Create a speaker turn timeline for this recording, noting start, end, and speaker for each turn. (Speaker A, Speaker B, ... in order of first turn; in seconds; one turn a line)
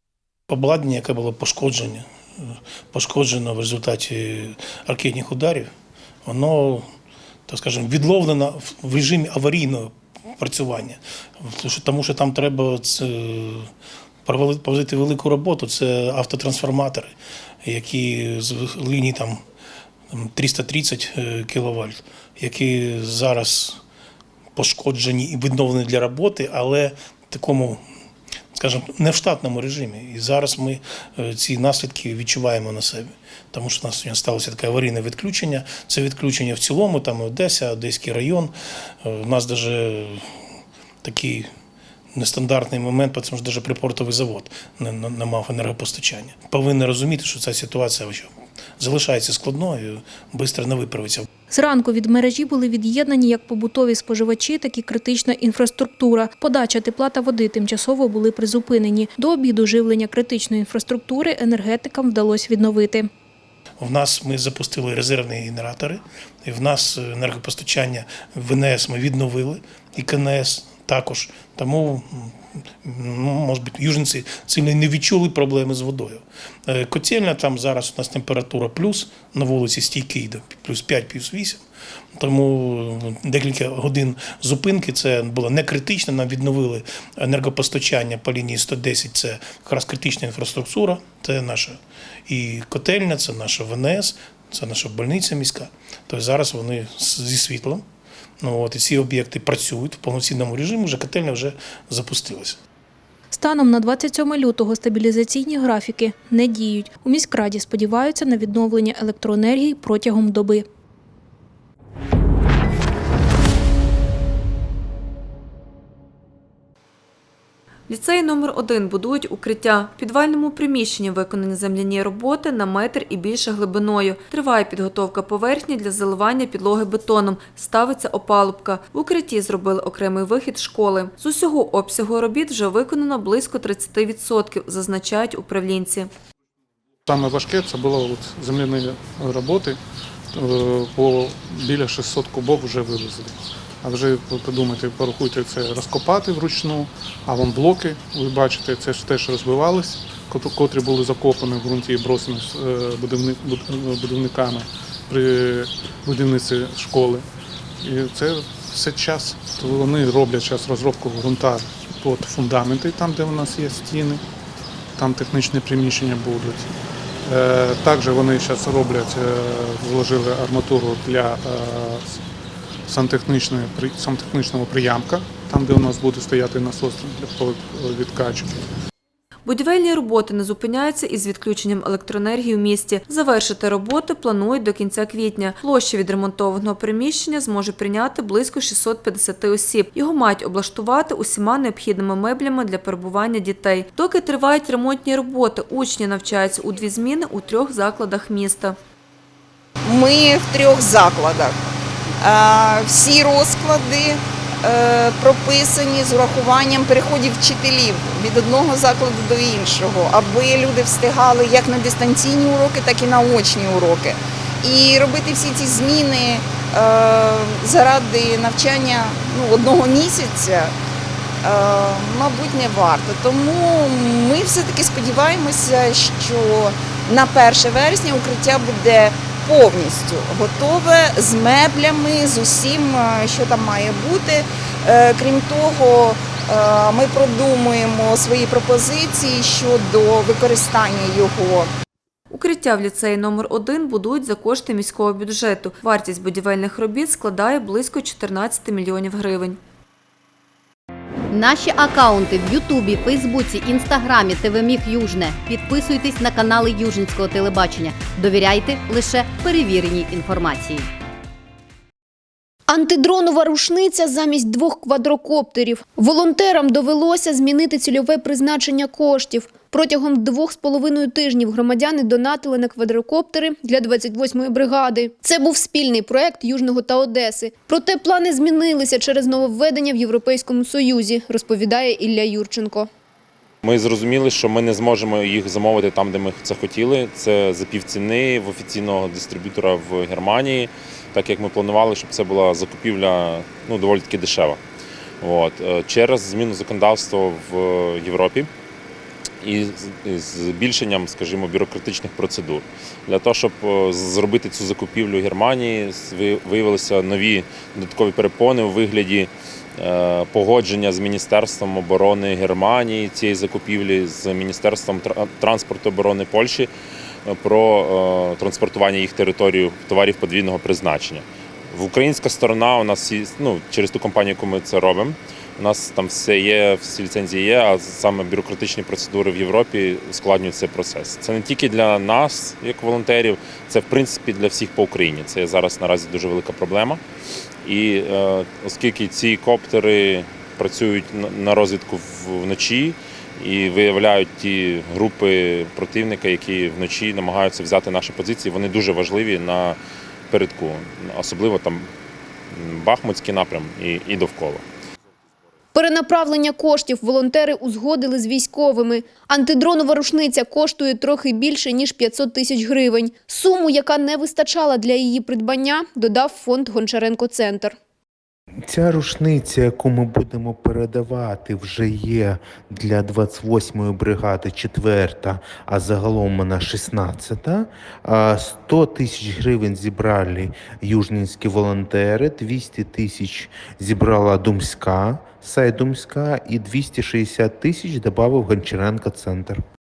Speaker A: 0.5-5.7
Speaker A: 6.2-6.8
Speaker A: 7.5-13.7
Speaker A: 14.2-17.1
Speaker A: 17.6-19.4
Speaker A: 20.1-23.8
Speaker A: 24.6-27.8
Speaker A: 28.6-38.5
Speaker A: 39.0-40.2
Speaker A: 41.0-41.5
Speaker A: 42.1-51.3
Speaker B: 51.5-63.1
Speaker A: 63.8-81.6
Speaker A: 82.2-97.8
Speaker A: 98.4-102.6
Speaker B: 103.3-110.7
Speaker C: 117.9-136.1
Speaker D: 137.1-139.8
Speaker D: 140.3-157.3
Speaker D: 157.8-164.2
Speaker D: 165.0-172.2
Speaker D: 172.9-178.7
Speaker C: 179.5-198.8
Speaker E: 199.8-201.6
Speaker E: 202.2-220.7
Speaker E: 221.4-241.7
Speaker C: 242.3-249.6
Speaker F: 251.3-260.9
Speaker G: 262.7-282.9
Speaker H: 283.6-294.6
Speaker H: 295.2-298.5
Speaker H: 299.4-316.7
Speaker H: 317.3-337.0
Speaker H: 337.6-349.8
Speaker H: 350.3-351.9
Speaker H: 352.5-354.6
Speaker G: 355.7-367.8
Speaker I: 368.7-389.6